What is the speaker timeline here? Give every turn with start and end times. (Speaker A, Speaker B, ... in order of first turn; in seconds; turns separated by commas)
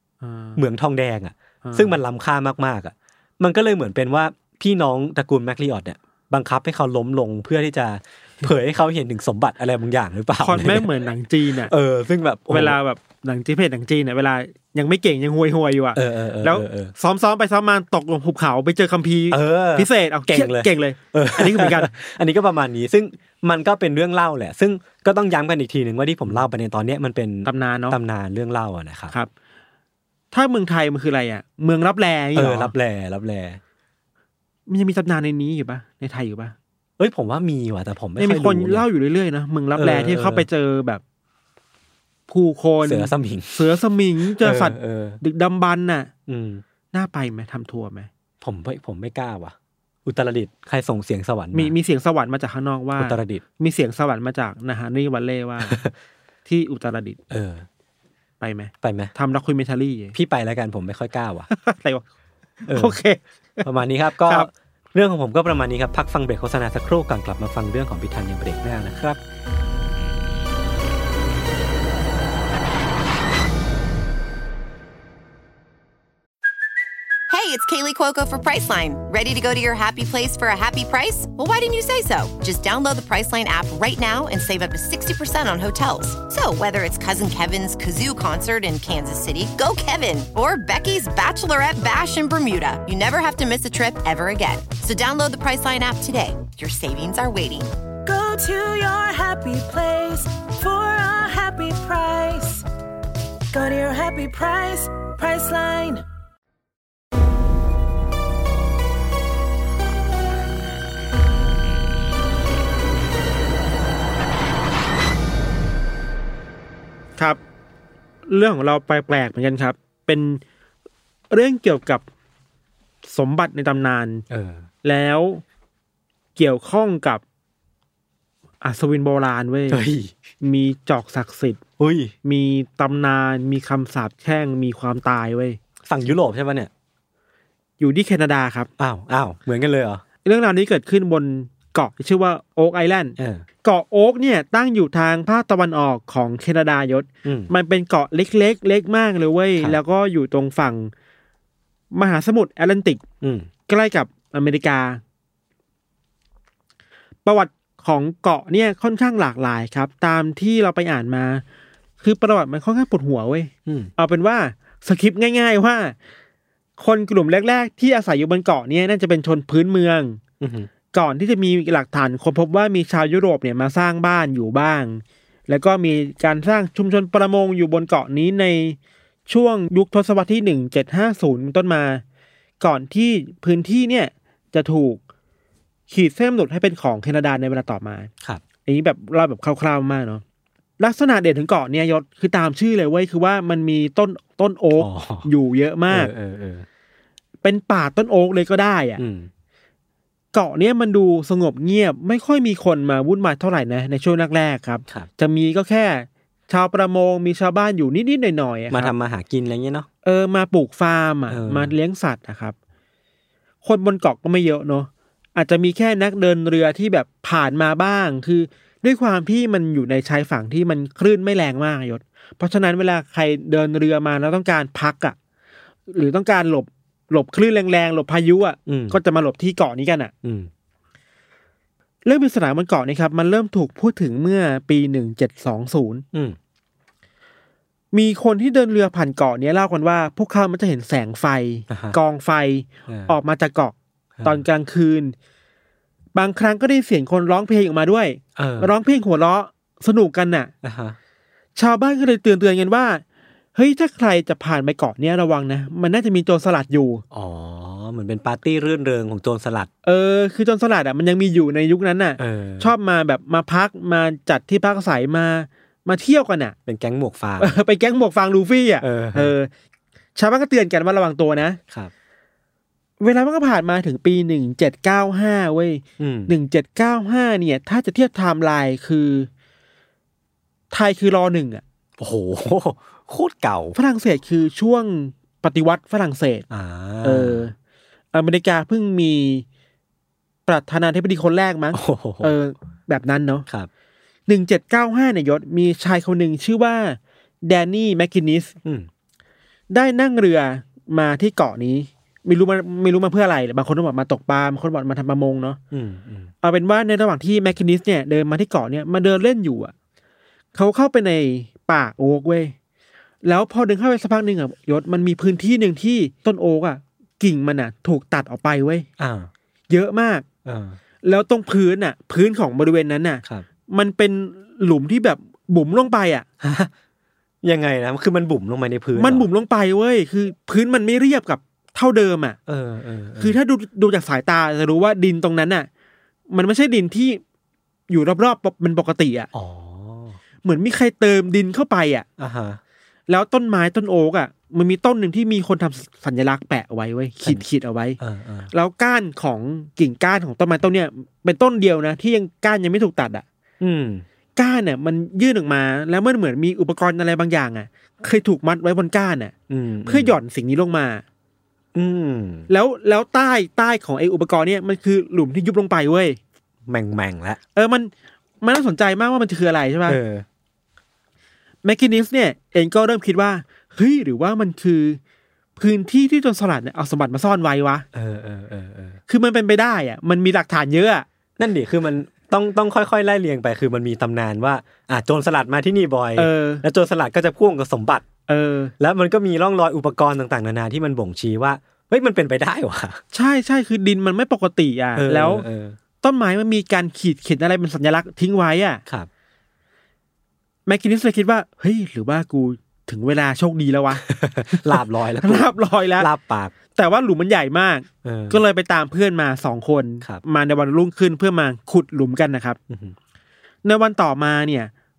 Speaker A: 0.2-0.6, Speaker B: 0.6-10.9, Speaker A: 1.6-2.0, Speaker A: 10.4-11.7, Speaker B: 11.7-12.8, Speaker A: 12.5-21.9, Speaker B: 15.9-16.9, Speaker B: 19.3-29.1, Speaker A: 27.4-28.0, Speaker A: 30.3-32.7, Speaker B: 32.4-33.6, Speaker A: 34.7-36.5, Speaker B: 37.0-38.9, Speaker A: 38.2-41.0, Speaker B: 39.8-40.5, Speaker A: 42.3-46.1, Speaker B: 42.8-45.2, Speaker B: 46.3-46.6, Speaker A: 46.9-48.1, Speaker B: 48.4-51.7, Speaker A: 51.5-55.8, Speaker B: 53.0-53.4, Speaker B: 55.6-55.9, Speaker A: 56.5-57.2, Speaker B: 57.3-57.7, Speaker A: 58.4-60.1, Speaker B: 58.8-59.1, Speaker B: 60.1-61.5, Speaker A: 61.5-62.0, Speaker A: 62.6-63.7, Speaker B: 62.7-63.0, Speaker B: 63.6-69.2, Speaker A: 64.2-64.5, Speaker C: 77.3-97.7, Speaker D: 98.0-102.7, Speaker D: 103.5-106.0, Speaker A: 118.3-120.4, Speaker A: 121.3-122.0, Speaker A: 123.0-124.2, Speaker B: 124.3-124.7, Speaker A: 124.8-125.4, Speaker A: 126.4-127.2, Speaker A: 128.6-129.8, Speaker B: 129.7-130.1, Speaker A: 130.4-131.6, Speaker B: 131.8-132.1, Speaker A: 132.2-135.6, Speaker B: 135.9-136.7, Speaker A: 137.8-138.7, Speaker B: 138.8-140.0, Speaker A: 140.2-150.9, Speaker B: 143.2-143.4, Speaker B: 147.2-147.5, Speaker A: 151.9-153.0, Speaker B: 153.2-153.5, Speaker A: 153.7-155.0, Speaker A: 157.2-161.4, Speaker A: 162.0-166.0, Speaker B: 163.7-163.9, Speaker A: 166.8-170.2, Speaker B: 170.4-170.7, Speaker A: 170.9-182.0, Speaker A: 182.6-185.0, Speaker A: 185.9-188.1, Speaker A: 188.7-190.2, Speaker A: 190.8-196.1, Speaker B: 194.8-195.3, Speaker B: 195.9-196.7, Speaker A: 197.4-199.0, Speaker B: 199.0-199.3, Speaker A: 200.3-208.9, Speaker B: 208.7-209.9, Speaker A: 210.0-212.6, Speaker B: 211.3-211.7, Speaker A: 213.6-225.2, Speaker A: 225.9-230.1, Speaker B: 228.7-229.0, Speaker B: 230.2-230.5, Speaker A: 232.1-236.0, Speaker A: 237.9-245.2, Speaker B: 241.7-242.0, Speaker B: 242.9-243.2, Speaker B: 244.2-244.4, Speaker A: 246.2-250.5, Speaker B: 248.4-248.7, Speaker B: 250.6-251.0, Speaker A: 251.6-253.0, Speaker A: 253.6-257.0, Speaker B: 257.1-259.7, Speaker A: 259.8-266.6, Speaker B: 262.2-262.7, Speaker B: 266.7-267.6, Speaker A: 267.4-269.5, Speaker B: 268.8-269.3, Speaker A: 270.1-271.6, Speaker A: 273.0-279.3, Speaker B: 276.0-276.3, Speaker A: 280.7-281.6, Speaker B: 282.0-283.8, Speaker A: 283.8-286.5, Speaker B: 286.5-287.5, Speaker A: 287.0-287.5, Speaker A: 288.1-289.4, Speaker A: 290.5-293.5, Speaker B: 291.7-292.3, Speaker A: 294.3-298.6, Speaker A: 299.7-305.6, Speaker B: 305.7-306.3, Speaker A: 306.4-309.7, Speaker A: 310.5-312.5, Speaker A: 313.2-318.9, Speaker B: 319.0-319.3, Speaker A: 319.7-320.2, Speaker B: 320.4-320.8, Speaker A: 321.0-326.3, Speaker B: 326.4-326.7, Speaker B: 327.4-329.3, Speaker A: 329.0-332.4, Speaker B: 332.5-333.4, Speaker A: 333.2-335.7, Speaker A: 336.3-337.2, Speaker A: 337.9-339.3, Speaker B: 339.3-340.2, Speaker A: 340.4-342.1, Speaker B: 342.2-342.6, Speaker A: 343.1-348.0, Speaker B: 348.0-348.5, Speaker A: 348.5-353.2, Speaker B: 353.6-354.1, Speaker A: 354.4-359.3, Speaker B: 359.5-360.2, Speaker A: 359.9-361.0, Speaker B: 361.8-362.5, Speaker A: 362.5-366.2, Speaker B: 366.7-367.4, Speaker A: 367.6-367.9, Speaker A: 368.4-370.0, Speaker B: 369.9-370.2, Speaker A: 371.6-375.0, Speaker A: 375.6-377.9, Speaker B: 377.9-379.0, Speaker A: 379.1-381.1, Speaker B: 381.4-388.1, Speaker A: 386.2-386.6, Speaker A: 388.3-388.7, Speaker B: 388.8-393.0, Speaker A: 393.1-395.5, Speaker B: 395.0-395.8, Speaker A: 396.0-398.8, Speaker A: 400.7-406.1, Speaker B: 403.9-406.5, Speaker A: 406.8-412.6, Speaker B: 408.0-408.4, Speaker B: 412.7-412.9, Speaker A: 413.6-414.7